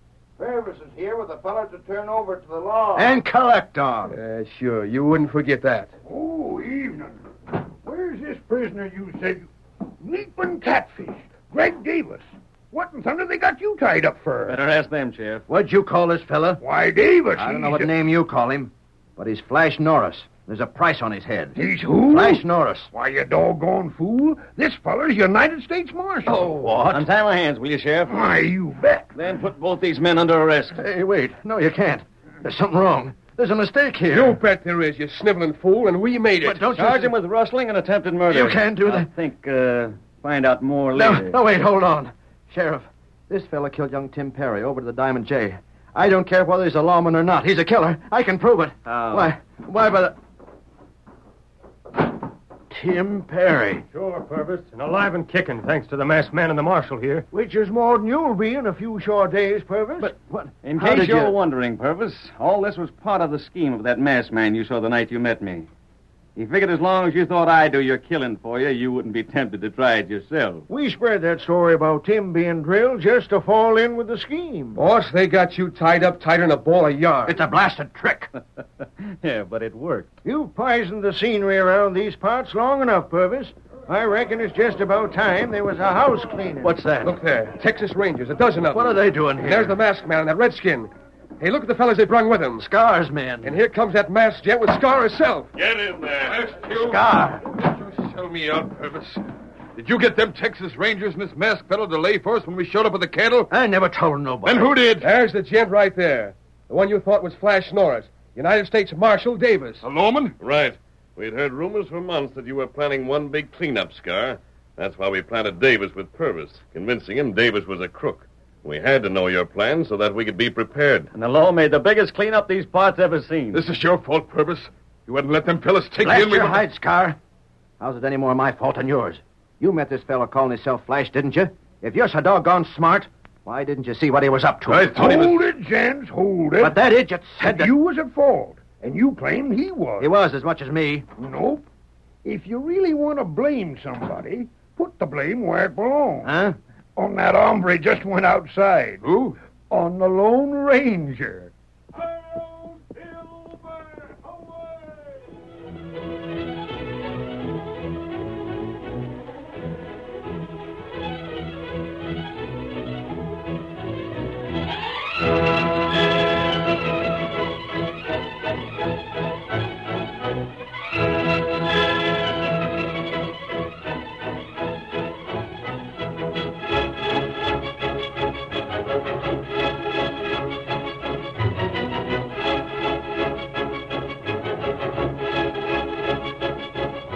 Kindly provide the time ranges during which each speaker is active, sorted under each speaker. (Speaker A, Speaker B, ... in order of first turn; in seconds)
Speaker A: 0.4-3.1, 57.3-60.1, 70.7-74.8, 80.2-86.8
Speaker B: 3.0-4.2, 15.5-16.6, 17.4-22.9, 26.3-27.1, 30.7-34.4, 36.4-37.1, 38.3-39.1, 40.9-50.2, 52.7-53.8, 60.0-61.4, 77.3-78.3, 86.6-87.2, 88.7-89.8, 92.6-93.6, 96.8-97.5, 103.5-104.7, 126.0-127.2, 127.8-135.2, 136.6-137.7, 140.0-141.1, 146.2-146.6
Speaker C: 4.1-5.9, 26.3-26.8, 34.1-37.1, 74.8-77.4, 87.0-92.7, 93.4-95.5, 105.0-109.9
Speaker D: 6.0-7.2, 7.8-9.5, 10.0-14.6, 16.6-17.9, 21.6-26.5, 28.1-29.1, 134.9-136.8, 137.4-140.1, 141.2-141.7, 142.2-146.3, 147.0-149.1, 149.7-151.5
Speaker E: 14.5-15.4, 26.9-28.1, 29.1-30.8, 36.7-41.4, 48.9-49.3, 60.6-65.7, 66.4-70.7, 78.8-80.1, 121.1-123.6
Speaker F: 53.9-57.2
Speaker G: 95.5-96.5, 110.4-121.1
Speaker H: 96.2-99.2, 99.8-103.5, 104.5-105.1, 109.8-110.4, 123.5-126.6, 134.7-135.5, 149.1-149.3